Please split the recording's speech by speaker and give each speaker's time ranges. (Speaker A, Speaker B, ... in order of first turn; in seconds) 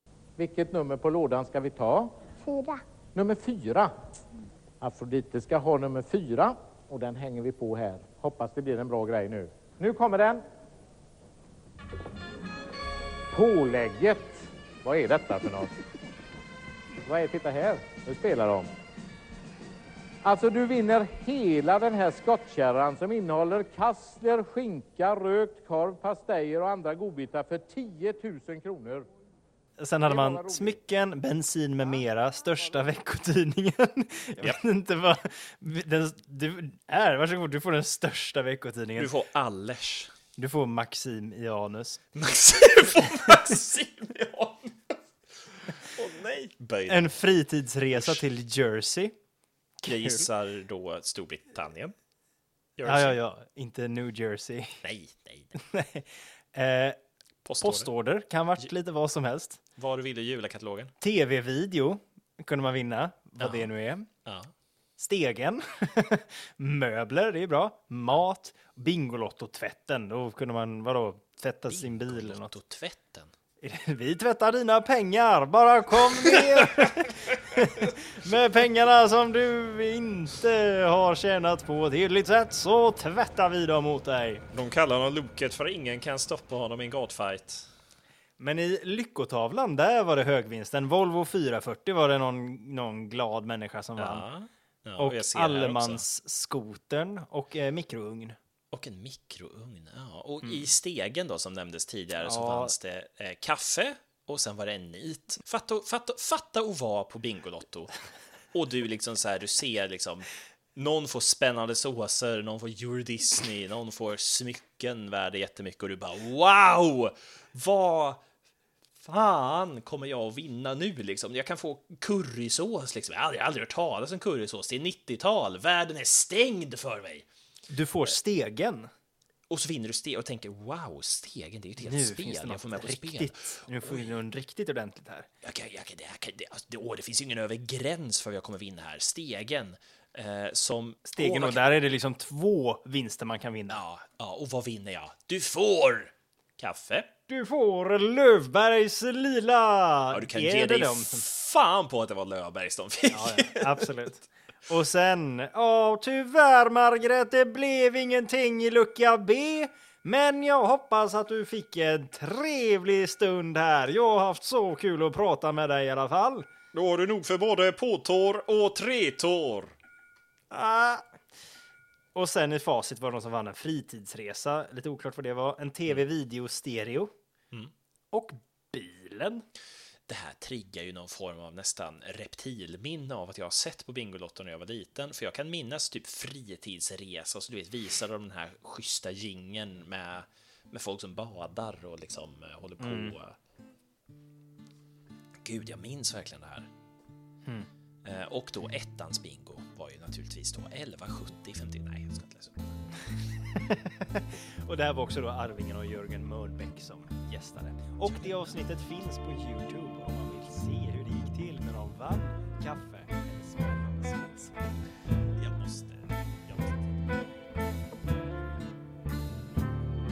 Speaker A: 0.4-3.9, 4.8-10.4, 13.3-15.7, 17.0-18.7, 20.2-29.1, 30.1-30.8
Speaker B: 29.8-39.1, 40.4-42.0, 46.9-49.1, 49.8-50.2, 52.8-54.8, 55.5-57.0, 57.6-59.6, 61.0-64.1, 65.0-72.5, 73.6-84.4, 88.4-94.2, 95.0-98.3, 102.2-102.7, 127.7-128.9, 131.8-135.3, 141.1-143.8, 147.3-151.2, 153.1-166.5, 170.5-171.1, 172.1-177.1, 178.1-179.4, 192.8-193.1, 203.5-214.8
Speaker C: 39.0-40.1, 42.1-47.1, 47.9-48.2, 49.8-51.9, 52.8-53.2, 54.8-55.5, 57.4-57.9, 59.8-60.9, 63.4-63.7, 64.2-64.5, 71.7-73.3, 76.1-77.9, 84.5-87.7, 94.0-96.0, 98.7-107.9, 108.5-118.2, 119.0-127.3, 129.5-134.1, 135.4-141.6, 143.7-147.1, 150.1-153.9, 166.7-169.7, 180.1-193.3, 195.4-196.7, 198.0-202.8, 208.0-208.6, 215.3-217.1